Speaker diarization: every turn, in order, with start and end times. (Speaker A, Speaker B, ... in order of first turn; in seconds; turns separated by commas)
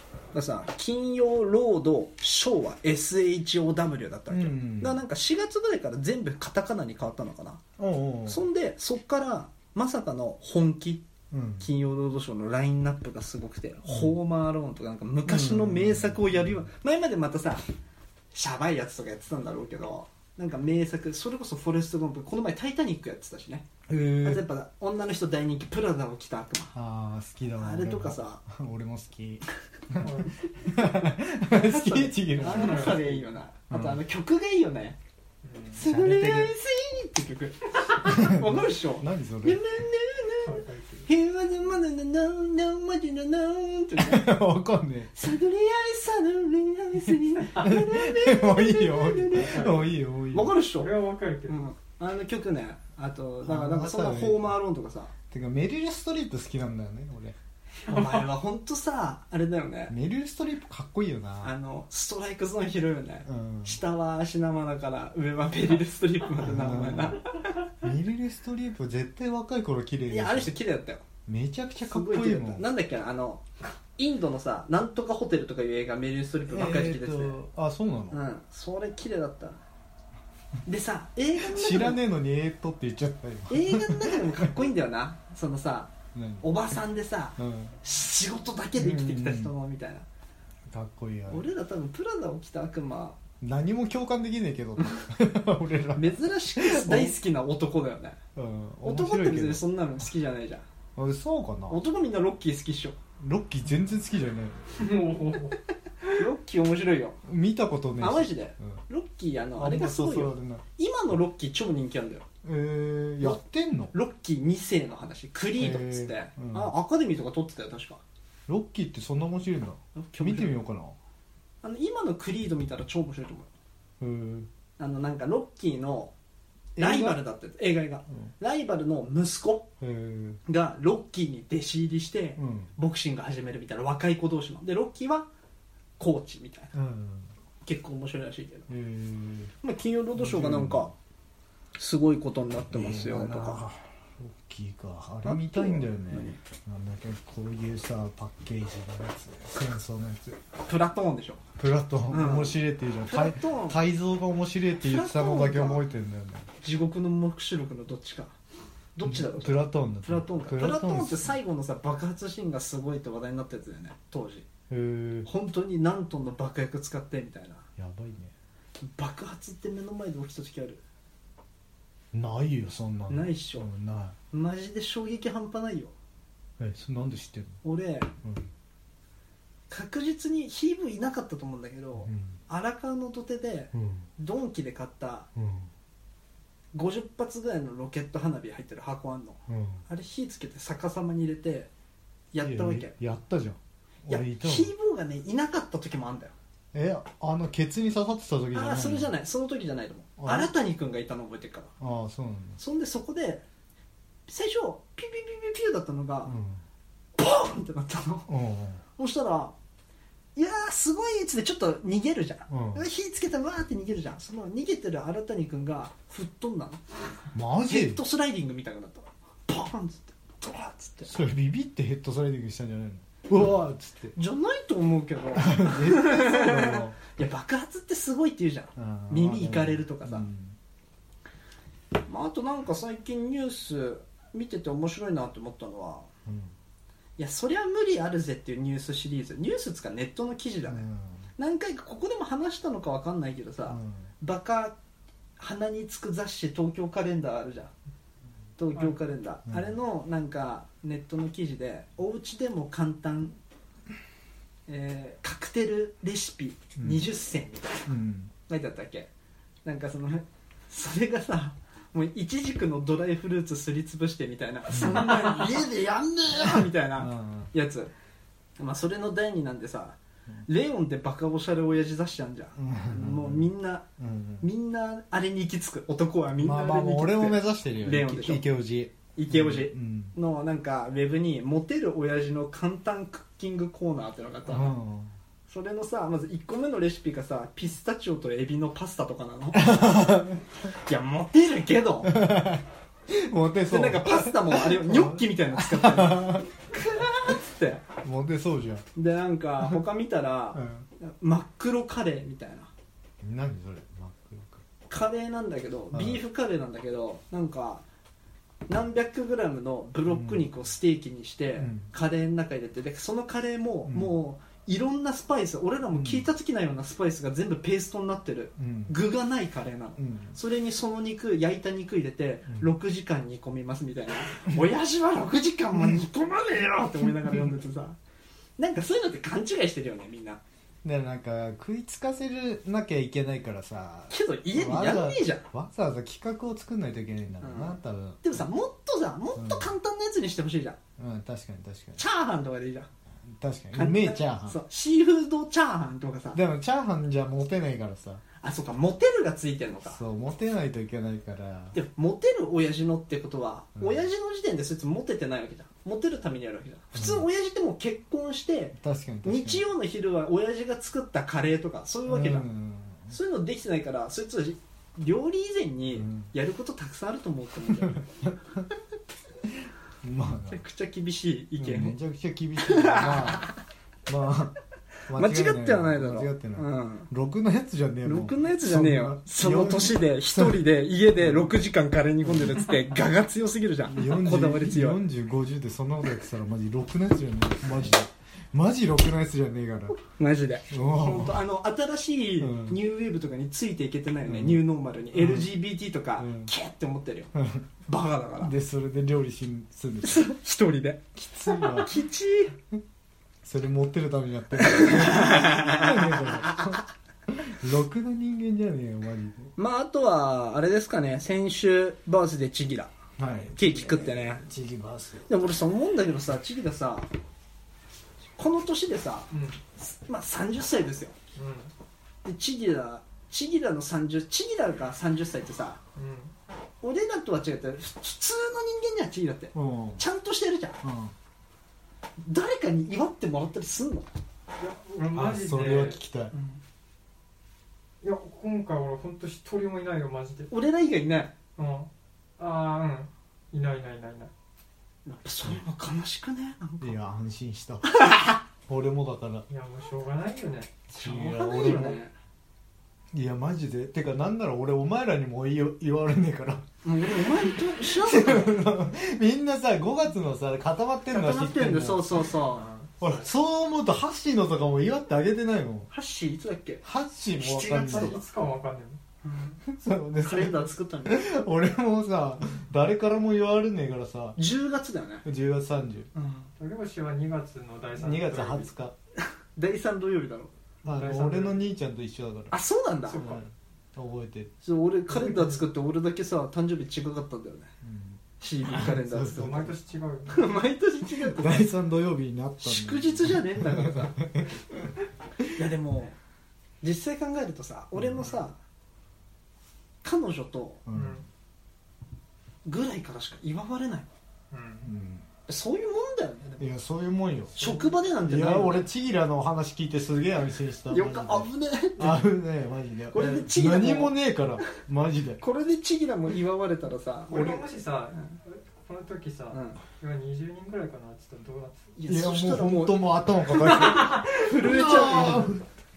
Speaker A: 0.3-7.6, Speaker B: 4.3-5.0, Speaker B: 7.8-8.4, Speaker A: 8.3-11.1, Speaker B: 11.3-11.7, Speaker A: 11.6-17.6, Speaker B: 13.9-14.2, Speaker B: 15.2-16.6, Speaker A: 18.3-23.7, Speaker B: 23.9-24.5, Speaker A: 24.2-26.8, Speaker B: 26.7-33.0, Speaker A: 27.6-28.4, Speaker C: 30.0-30.3, Speaker A: 31.5-35.0, Speaker C: 32.5-33.2, Speaker B: 33.7-34.0, Speaker C: 35.4-35.8, Speaker B: 35.8-36.5, Speaker A: 35.8-44.4, Speaker B: 38.1-39.6, Speaker C: 40.5-41.1, Speaker B: 44.0-45.1, Speaker A: 45.1-50.9, Speaker B: 47.6-50.6, Speaker C: 49.4-49.9, Speaker C: 50.8-51.6, Speaker A: 51.5-55.1, Speaker B: 53.4-54.5, Speaker B: 55.3-57.4, Speaker C: 57.9-58.3, Speaker A: 57.9-60.0, Speaker B: 59.9-61.5, Speaker A: 61.4-67.6, Speaker B: 63.3-63.8, Speaker B: 66.4-67.2, Speaker B: 67.8-70.5, Speaker A: 70.1-71.0, Speaker B: 71.3-72.7, Speaker A: 71.8-73.5, Speaker A: 74.0-77.4, Speaker B: 76.5-78.2, Speaker A: 78.1-79.6, Speaker A: 80.7-82.0, Speaker B: 81.4-84.6, Speaker A: 83.5-90.1, Speaker B: 86.1-86.4, Speaker B: 87.4-87.8, Speaker B: 88.8-89.5, Speaker B: 90.7-91.5, Speaker A: 91.3-93.2, Speaker B: 93.4-97.1, Speaker A: 96.0-98.2, Speaker B: 98.3-99.6, Speaker A: 98.8-100.7, Speaker B: 101.0-101.8, Speaker A: 101.7-103.0, Speaker B: 103.2-104.9, Speaker C: 104.8-105.6, Speaker A: 106.1-107.2, Speaker B: 107.2-108.8, Speaker A: 108.0-112.3, Speaker B: 109.6-110.6, Speaker B: 112.4-113.9, Speaker A: 113.9-118.0, Speaker B: 115.6-116.7, Speaker B: 118.5-121.0, Speaker A: 120.0-120.6, Speaker A: 121.6-123.5, Speaker B: 124.0-124.5, Speaker A: 124.8-126.1, Speaker B: 126.8-127.2, Speaker A: 126.8-129.7, Speaker B: 129.8-130.4, Speaker A: 130.5-135.3, Speaker B: 132.4-132.7, Speaker A: 136.0-136.7, Speaker B: 136.7-137.3, Speaker A: 137.6-138.7, Speaker B: 138.7-139.5, Speaker A: 139.6-140.9, Speaker B: 140.2-140.9, Speaker A: 141.8-143.7, Speaker B: 142.7-150.4, Speaker A: 145.2-146.4, Speaker A: 150.6-151.4, Speaker B: 151.6-156.5, Speaker A: 152.1-153.8, Speaker A: 154.8-155.8, Speaker A: 156.6-158.4, Speaker A: 159.0-164.5, Speaker B: 159.1-161.3, Speaker B: 164.7-165.3, Speaker A: 165.3-167.7, Speaker B: 167.8-168.3, Speaker A: 168.8-170.8, Speaker B: 172.1-174.2, Speaker A: 173.1-173.7, Speaker A: 174.3-175.9, Speaker B: 176.6-177.6, Speaker A: 177.6-178.1, Speaker B: 178.2-178.5, Speaker A: 179.7-185.3, Speaker B: 182.1-182.4, Speaker B: 183.7-184.1, Speaker B: 185.4-185.7, Speaker A: 186.7-191.7, Speaker B: 189.5-189.8, Speaker A: 192.3-192.9, Speaker B: 192.4-194.7, Speaker A: 194.1-196.3, Speaker B: 196.7-199.1, Speaker A: 198.5-201.7, Speaker B: 200.2-200.5, Speaker B: 201.8-202.6, Speaker A: 202.6-203.4, Speaker A: 204.3-206.4, Speaker B: 206.3-206.6, Speaker A: 207.2-208.3, Speaker B: 208.3-208.8, Speaker A: 209.0-209.5, Speaker A: 210.4-216.8, Speaker B: 212.5-212.8, Speaker B: 217.3-218.0, Speaker A: 217.7-221.1, Speaker B: 221.1-224.2, Speaker A: 224.2-230.3, Speaker B: 225.4-227.0, Speaker B: 228.8-230.6, Speaker A: 232.1-236.1, Speaker B: 236.3-236.5, Speaker A: 237.2-240.9, Speaker B: 240.7-241.2, Speaker A: 241.4-244.8, Speaker B: 243.7-244.1, Speaker A: 245.4-247.7, Speaker A: 248.6-253.4, Speaker B: 249.5-249.8, Speaker A: 254.7-257.9, Speaker B: 256.8-257.1, Speaker B: 257.9-258.3, Speaker A: 258.5-259.1, Speaker A: 259.6-267.9, Speaker B: 264.7-265.3, Speaker B: 266.3-267.5, Speaker A: 268.6-273.9, Speaker B: 272.6-274.5, Speaker A: 274.4-278.4, Speaker B: 276.4-280.1, Speaker A: 279.1-284.8, Speaker B: 284.5-285.1, Speaker A: 285.5-290.0, Speaker B: 289.6-290.4, Speaker A: 290.7-292.3, Speaker B: 292.0-296.5, Speaker A: 293.7-297.8, Speaker B: 298.0-298.9, Speaker A: 299.0-302.7, Speaker B: 300.5-300.9, Speaker B: 303.2-304.6, Speaker A: 304.9-307.8, Speaker B: 305.9-306.2, Speaker A: 308.7-328.0, Speaker B: 310.1-310.5, Speaker B: 311.6-311.9, Speaker B: 313.9-314.1, Speaker B: 315.9-316.3, Speaker B: 318.6-319.0, Speaker B: 320.0-320.4, Speaker A: 328.6-330.4, Speaker B: 330.8-338.2, Speaker A: 334.1-335.5, Speaker A: 337.4-340.8, Speaker B: 339.4-339.7, Speaker B: 341.0-342.0, Speaker A: 342.0-342.9, Speaker B: 343.2-344.6, Speaker A: 343.7-346.4, Speaker B: 346.3-348.2, Speaker A: 348.4-350.0, Speaker B: 349.9-351.8, Speaker A: 351.7-362.5, Speaker B: 353.8-354.1, Speaker B: 356.9-357.3, Speaker B: 358.8-359.6, Speaker B: 362.1-363.2, Speaker A: 363.1-368.1, Speaker B: 365.9-366.3, Speaker B: 367.8-368.6, Speaker B: 370.0-370.6, Speaker A: 370.5-372.0, Speaker B: 371.6-373.5, Speaker A: 372.6-373.6, Speaker B: 374.1-380.7, Speaker A: 375.2-377.1, Speaker A: 378.0-385.0, Speaker B: 381.2-381.6, Speaker B: 382.2-382.6, Speaker B: 383.9-390.0, Speaker A: 390.1-397.3, Speaker B: 390.7-391.4, Speaker B: 392.4-392.8, Speaker B: 394.3-395.6, Speaker B: 396.2-396.5, Speaker B: 397.3-397.7, Speaker A: 397.9-398.5, Speaker B: 398.4-400.3, Speaker A: 400.0-402.5, Speaker B: 401.1-401.9, Speaker B: 403.4-409.5, Speaker A: 404.6-406.8, Speaker A: 409.6-412.9, Speaker B: 413.2-415.3, Speaker A: 413.5-414.5, Speaker A: 415.3-417.1, Speaker A: 418.4-421.1, Speaker C: 419.3-419.6, Speaker C: 421.4-421.7, Speaker A: 422.2-425.8, Speaker C: 426.0-426.3, Speaker A: 426.8-430.8, Speaker B: 429.5-430.0, Speaker B: 430.8-431.1, Speaker A: 432.2-434.1, Speaker C: 434.6-436.0, Speaker B: 435.1-436.3, Speaker A: 436.3-436.6, Speaker C: 438.0-440.5, Speaker A: 440.5-441.4, Speaker C: 441.6-444.3, Speaker A: 445.1-447.0, Speaker B: 446.8-449.5, Speaker C: 449.5-452.0, Speaker B: 451.0-452.0, Speaker A: 451.0-452.1, Speaker B: 453.1-456.6, Speaker A: 456.8-458.6, Speaker B: 457.2-462.2, Speaker A: 461.1-462.7, Speaker C: 462.5-463.3, Speaker B: 463.0-465.9, Speaker A: 465.9-466.8, Speaker B: 466.8-468.2, Speaker A: 467.4-468.2, Speaker C: 467.8-469.0, Speaker A: 469.2-469.6, Speaker B: 469.7-474.4, Speaker A: 470.2-471.3, Speaker A: 474.4-475.2, Speaker B: 475.2-476.1, Speaker A: 476.1-476.5, Speaker C: 476.6-478.7, Speaker B: 478.0-478.9, Speaker A: 479.6-480.5, Speaker C: 480.8-481.7, Speaker B: 480.8-482.6, Speaker A: 482.5-483.2, Speaker C: 483.1-483.4, Speaker B: 483.2-484.5, Speaker A: 484.6-487.7, Speaker C: 485.1-485.7, Speaker B: 487.8-489.7, Speaker A: 488.4-489.7, Speaker C: 489.0-490.5, Speaker A: 490.3-491.7, Speaker B: 491.3-494.9, Speaker A: 492.6-494.2, Speaker A: 495.5-496.2, Speaker A: 496.8-498.6, Speaker B: 497.9-498.3, Speaker A: 500.0-500.8, Speaker B: 500.9-501.2, Speaker C: 500.9-501.3, Speaker A: 502.6-504.1, Speaker C: 504.5-504.9, Speaker B: 504.9-505.2, Speaker A: 505.5-506.7, Speaker B: 506.6-515.4, Speaker A: 507.6-508.9, Speaker A: 510.9-512.2, Speaker A: 513.1-514.2, Speaker A: 515.4-517.6, Speaker C: 517.3-521.9, Speaker A: 519.5-519.8, Speaker A: 522.0-525.5, Speaker B: 522.1-525.7